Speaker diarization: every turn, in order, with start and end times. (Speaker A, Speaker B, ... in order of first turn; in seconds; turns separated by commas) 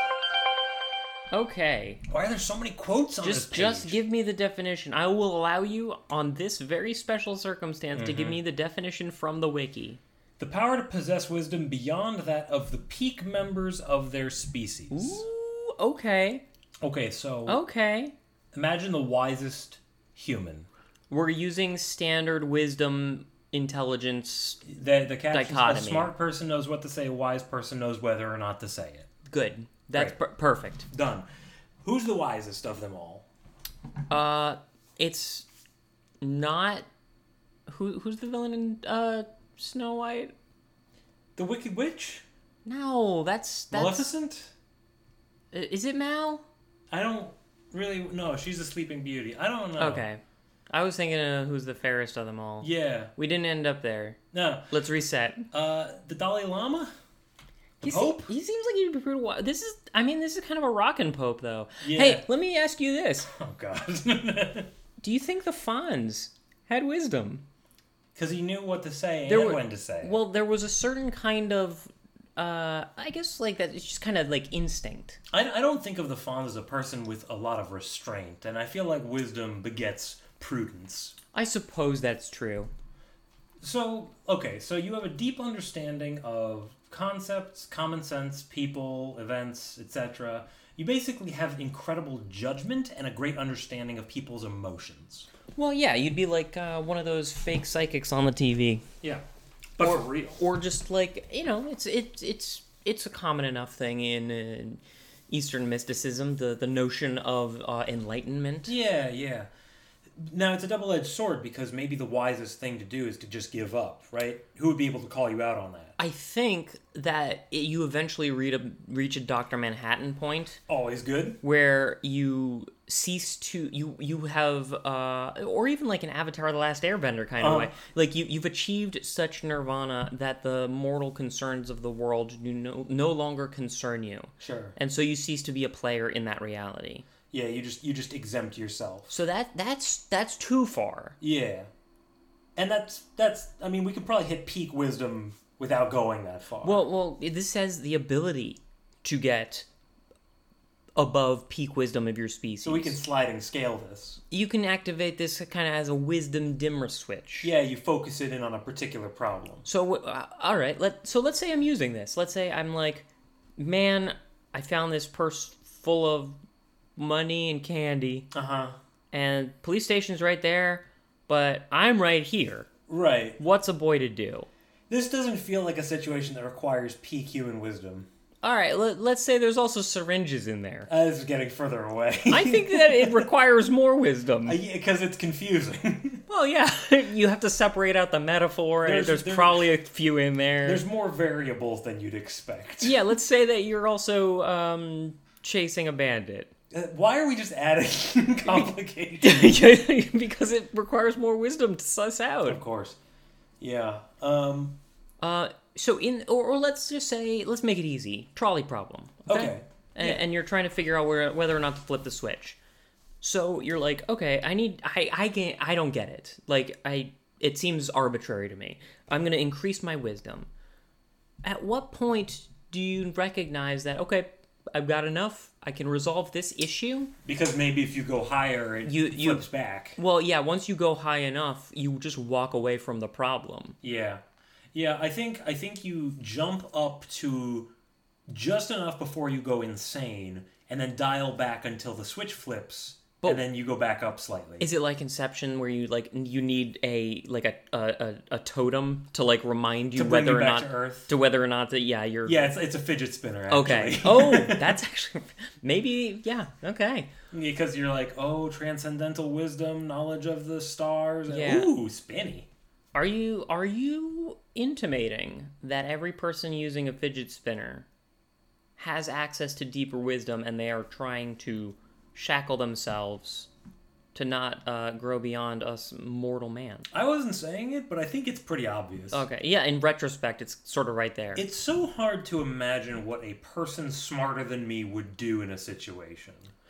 Speaker A: 1.3-2.0, Speaker B: 2.1-4.0, Speaker A: 3.2-10.0, Speaker B: 7.9-8.4, Speaker B: 10.4-15.2, Speaker A: 14.9-16.4, Speaker B: 16.8-17.6, Speaker A: 17.5-18.1, Speaker B: 18.5-20.7, Speaker A: 21.1-24.6, Speaker B: 24.6-29.1, Speaker A: 25.3-26.1, Speaker A: 29.3-30.9, Speaker B: 30.9-31.3, Speaker B: 31.8-33.3, Speaker A: 34.1-35.5, Speaker A: 36.2-36.9, Speaker A: 37.7-40.3, Speaker B: 41.4-42.2, Speaker A: 42.6-44.1, Speaker B: 43.7-44.5, Speaker A: 45.5-46.5, Speaker B: 46.9-50.1, Speaker A: 49.8-54.2, Speaker B: 52.6-53.1, Speaker B: 54.3-54.7, Speaker A: 54.7-55.5, Speaker B: 55.5-56.9, Speaker B: 57.8-58.3, Speaker A: 57.8-63.3, Speaker B: 61.8-62.3, Speaker B: 63.3-64.7, Speaker A: 65.0-67.4, Speaker B: 68.2-70.2, Speaker A: 69.3-75.2, Speaker B: 75.3-81.2, Speaker A: 81.3-82.7, Speaker B: 83.6-95.3, Speaker A: 95.5-98.8, Speaker B: 99.8-100.4, Speaker A: 99.8-108.8, Speaker B: 108.7-109.5, Speaker B: 110.2-116.0, Speaker A: 116.0-120.6, Speaker B: 120.7-121.4, Speaker A: 121.4-137.1, Speaker B: 127.4-127.7, Speaker B: 134.4-134.8, Speaker B: 137.3-139.1, Speaker A: 139.1-141.2, Speaker B: 141.2-141.7, Speaker B: 142.6-146.9, Speaker A: 146.6-149.7, Speaker A: 151.0-153.0, Speaker B: 152.6-154.2, Speaker A: 154.3-157.5, Speaker B: 157.4-159.7, Speaker A: 159.7-166.3, Speaker A: 167.0-168.3, Speaker B: 168.3-168.8, Speaker A: 169.1-172.7, Speaker B: 172.9-173.4, Speaker A: 173.4-174.5, Speaker B: 174.9-178.1, Speaker A: 178.4-180.9, Speaker B: 180.9-183.3, Speaker A: 182.3-184.6, Speaker B: 184.4-186.2, Speaker A: 186.3-190.8, Speaker B: 188.8-189.7, Speaker B: 190.6-193.1, Speaker A: 192.8-196.5, Speaker B: 196.7-199.6, Speaker A: 198.4-202.6, Speaker B: 202.5-203.0, Speaker B: 203.6-204.8, Speaker A: 205.2-212.6, Speaker B: 209.3-210.2, Speaker A: 213.2-220.5, Speaker A: 221.4-227.1, Speaker B: 227.2-230.0, Speaker A: 228.9-229.5, Speaker A: 230.0-233.8, Speaker B: 233.8-234.2, Speaker B: 234.7-237.7, Speaker B: 238.3-244.7, Speaker A: 244.6-252.5, Speaker B: 249.9-251.1, Speaker B: 252.2-254.8, Speaker A: 253.5-257.1, Speaker B: 257.3-262.5, Speaker A: 261.3-261.7, Speaker A: 262.9-267.9, Speaker A: 268.8-273.5, Speaker A: 274.1-276.9, Speaker B: 276.9-279.3, Speaker A: 279.1-281.4, Speaker B: 281.4-286.5